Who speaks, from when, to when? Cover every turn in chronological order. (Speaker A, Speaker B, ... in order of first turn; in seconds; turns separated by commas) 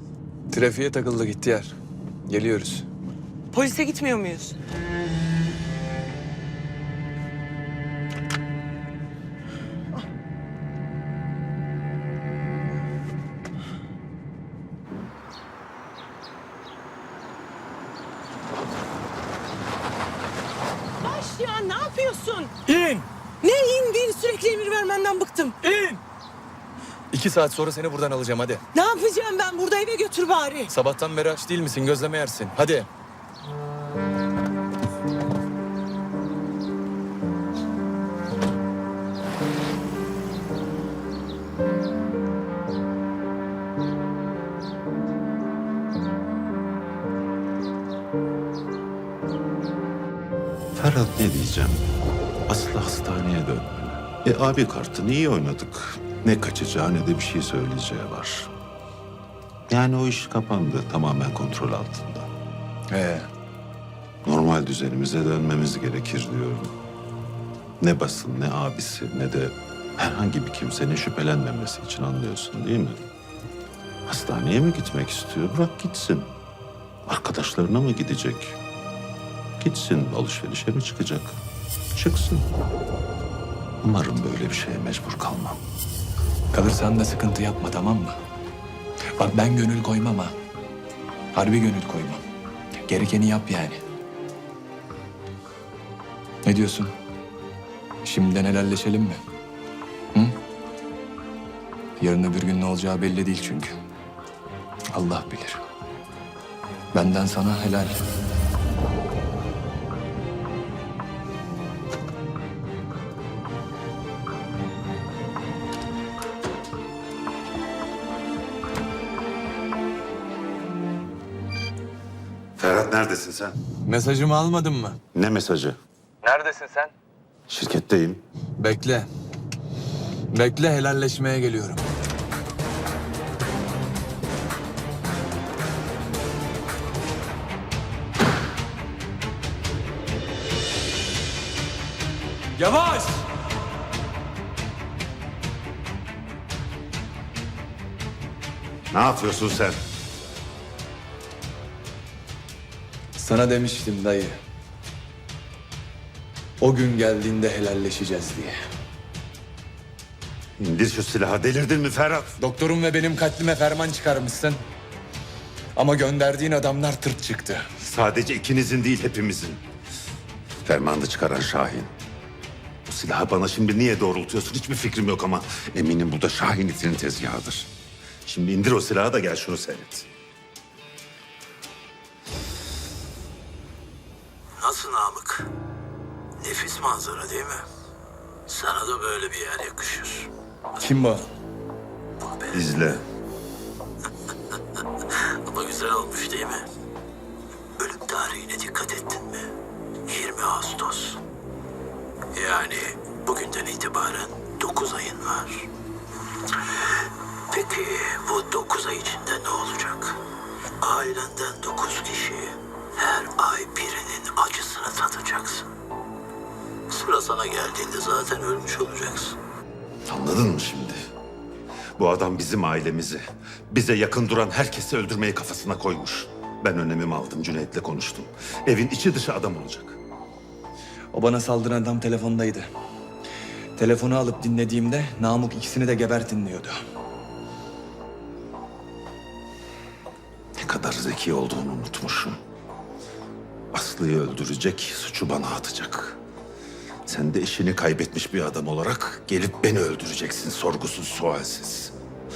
Speaker A: 0.5-2.9, Speaker B: 3.5-4.5, Speaker B: 21.0-22.5, Speaker A: 22.6-23.1, Speaker B: 23.4-25.6, Speaker A: 25.6-26.0, Speaker A: 27.1-28.6, Speaker B: 28.7-30.7, Speaker A: 30.7-32.9, Speaker C: 50.8-51.9, Speaker C: 52.5-58.5, Speaker C: 59.7-62.3, Speaker A: 62.9-63.3, Speaker C: 64.2-66.7, Speaker C: 67.8-73.1, Speaker C: 74.1-76.3, Speaker C: 77.1-78.6, Speaker C: 79.6-81.3, Speaker C: 81.9-82.5, Speaker C: 83.8-85.6, Speaker A: 86.5-88.2, Speaker A: 89.2-90.3, Speaker A: 91.3-92.2, Speaker A: 92.9-93.8, Speaker A: 96.4-96.9, Speaker A: 98.0-99.2, Speaker A: 102.0-103.7, Speaker A: 104.9-105.6, Speaker A: 106.9-108.0, Speaker C: 122.6-123.6, Speaker A: 123.8-125.0, Speaker C: 125.1-125.8, Speaker A: 126.2-126.9, Speaker C: 127.5-128.2, Speaker A: 128.6-129.1, Speaker A: 130.3-131.8, Speaker A: 142.6-143.3, Speaker C: 148.9-149.8, Speaker A: 153.2-154.4, Speaker A: 156.6-158.6, Speaker C: 160.6-162.3, Speaker A: 162.4-164.6, Speaker A: 165.7-167.7, Speaker C: 167.8-169.6, Speaker C: 170.6-171.9, Speaker C: 172.8-177.7, Speaker C: 178.2-180.1, Speaker D: 184.6-185.5, Speaker D: 186.4-187.7, Speaker D: 188.5-190.3, Speaker A: 190.8-191.2, Speaker D: 192.2-192.6, Speaker C: 192.5-193.0, Speaker D: 194.8-196.7, Speaker D: 197.8-199.5, Speaker D: 200.1-201.2, Speaker D: 202.3-205.7, Speaker D: 206.4-210.2, Speaker D: 210.8-215.7, Speaker D: 216.9-219.4, Speaker C: 220.1-221.0, Speaker C: 222.0-230.0, Speaker A: 231.1-232.7, Speaker A: 233.8-236.8, Speaker C: 240.6-242.4, Speaker C: 243.7-246.2, Speaker C: 247.1-251.9